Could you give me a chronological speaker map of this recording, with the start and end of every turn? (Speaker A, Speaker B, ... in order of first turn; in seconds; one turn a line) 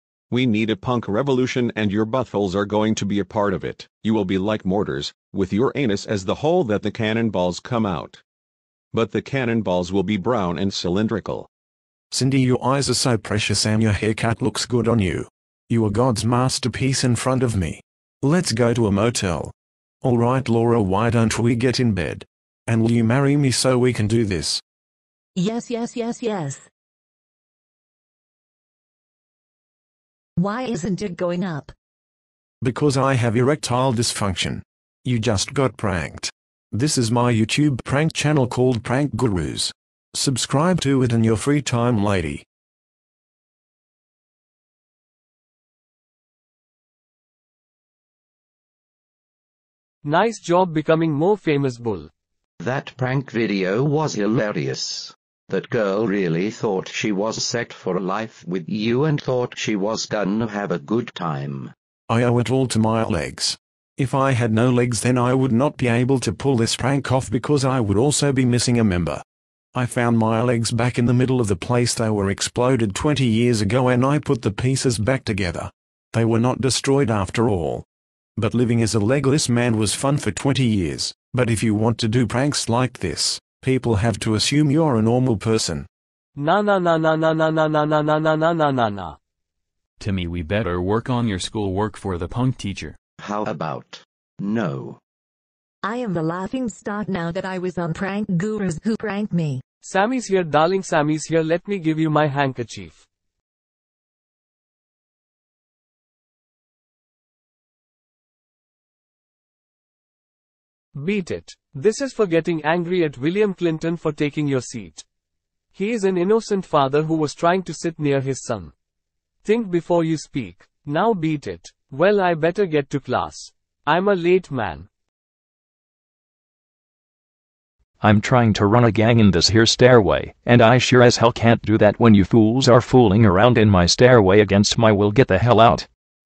Speaker A: 0.3-8.2
Speaker A: 8.9-11.5
Speaker B: 12.1-24.6
Speaker C: 25.4-26.6
Speaker C: 30.4-31.7
Speaker B: 32.6-42.4
Speaker D: 50.0-52.1
Speaker E: 52.6-61.7
Speaker B: 62.1-69.2
Speaker B: 69.7-77.8
Speaker B: 78.4-85.9
Speaker D: 86.3-89.2
Speaker F: 90.0-93.0
Speaker E: 93.2-95.0
Speaker C: 95.8-99.6
Speaker D: 99.8-103.0
Speaker D: 111.0-115.0
Speaker D: 115.7-118.7
Speaker D: 119.4-124.9
Speaker G: 128.0-135.9